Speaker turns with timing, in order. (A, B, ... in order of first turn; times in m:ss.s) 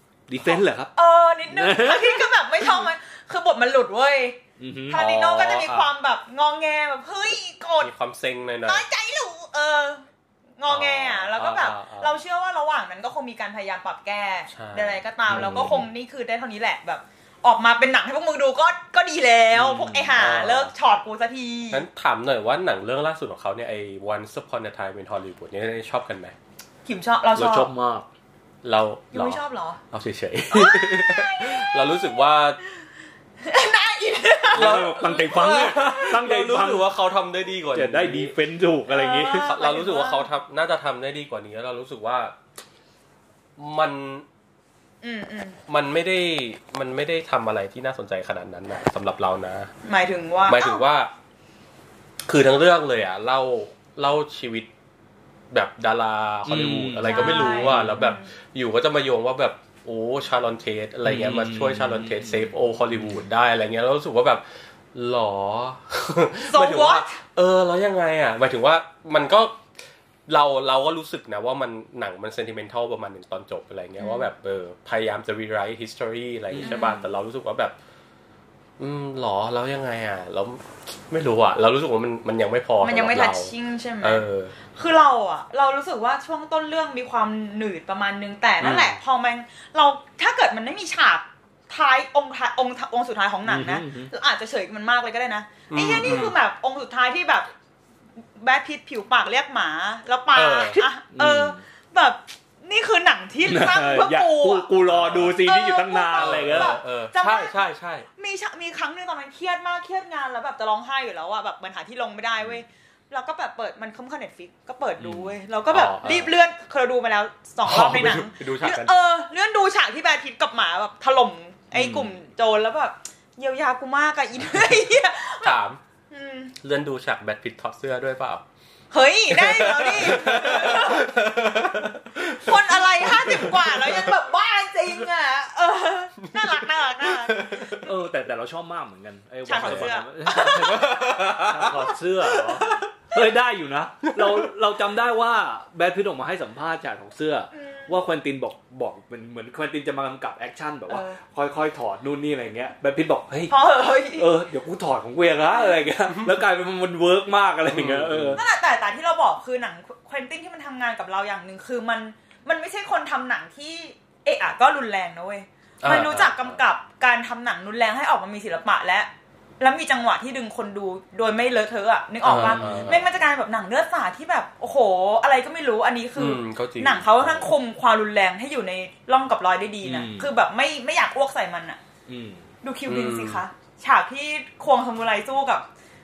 0:00.3-0:00.9 A
0:00.4-0:07.9 B
0:01.5-0:02.3 A
0:04.6-0:05.0 A
0:04.9-0:05.9 C
0:07.8-0:08.9 C
0:08.6-0:10.0 B
0:10.6-0:21.9 B
0:10.7-0:12.2 C
0:14.5-0:15.9 C
0:15.4-0:15.8 A
0:19.5-0:20.1 A
0:20.1-0:20.7 C
0:21.7-0:26.4 C
0:26.9-0:27.7 B
0:27.4-0:28.1 A
0:28.6-0:32.6 C
0:29.1-0:29.8 B
0:30.6-0:31.7 B
0:33.4-0:34.9 B
0:34.5-0:36.9 A
0:34.5-0:38.4 C
0:37.7-0:39.5 A
0:38.9-0:40.3 B
0:39.4-0:42.4 C
0:43.6-0:44.2 C
0:45.0-0:45.6 B
0:45.7-0:49.7 C
0:49.8-0:50.8 B
0:50.5-0:51.1 C
0:52.2-0:54.7 C
0:55.5-1:09.6 C
0:56.4-0:58.0 A
0:57.0-0:58.3 B
1:01.0-1:03.2 A
1:06.5-1:07.2 B
1:10.3-1:17.7 C
1:14.0-1:14.3 B
1:16.5-1:16.9 A
1:16.6-1:17.0 B
1:18.8-1:24.5 C
1:22.8-1:37.5 B
1:28.6-1:28.9 C
1:33.4-1:34.1 A
1:35.7-1:36.4 C
1:38.4-1:44.7 B
1:40.4-1:40.9 C
1:41.1-1:41.6 A
1:43.4-1:46.8 A
1:44.9-1:45.4 C
1:45.2-1:47.6 B
1:46.1-1:48.1 C
1:48.2-2:05.6 B
1:55.0-1:55.3 A
1:55.7-1:56.3 C
1:57.6-1:58.9 C
2:01.7-2:02.2 A
2:05.4-2:05.8 C
2:06.1-2:06.6 B
2:06.6-2:08.4 C
2:08.9-2:11.2 B
2:09.3-2:14.1 C
2:12.2-2:17.6 B
2:16.3-2:17.9 C
2:17.8-2:33.5 A
2:19.4-2:20.9 B
2:19.5-2:22.6 C
2:27.5-2:28.0 B
2:30.9-2:31.2 B
2:33.5-2:34.3 B
2:34.1-2:38.4 A
2:35.5-2:35.8 B
2:37.7-2:38.4 C
2:38.4-3:01.8 B
2:45.8-2:46.6 C
2:52.2-2:53.0 C
2:52.5-2:53.0 A
2:56.2-2:57.5 C
2:59.8-3:00.3 A
3:02.1-3:02.5 A
3:02.6-3:05.6 B
3:02.9-3:03.4 C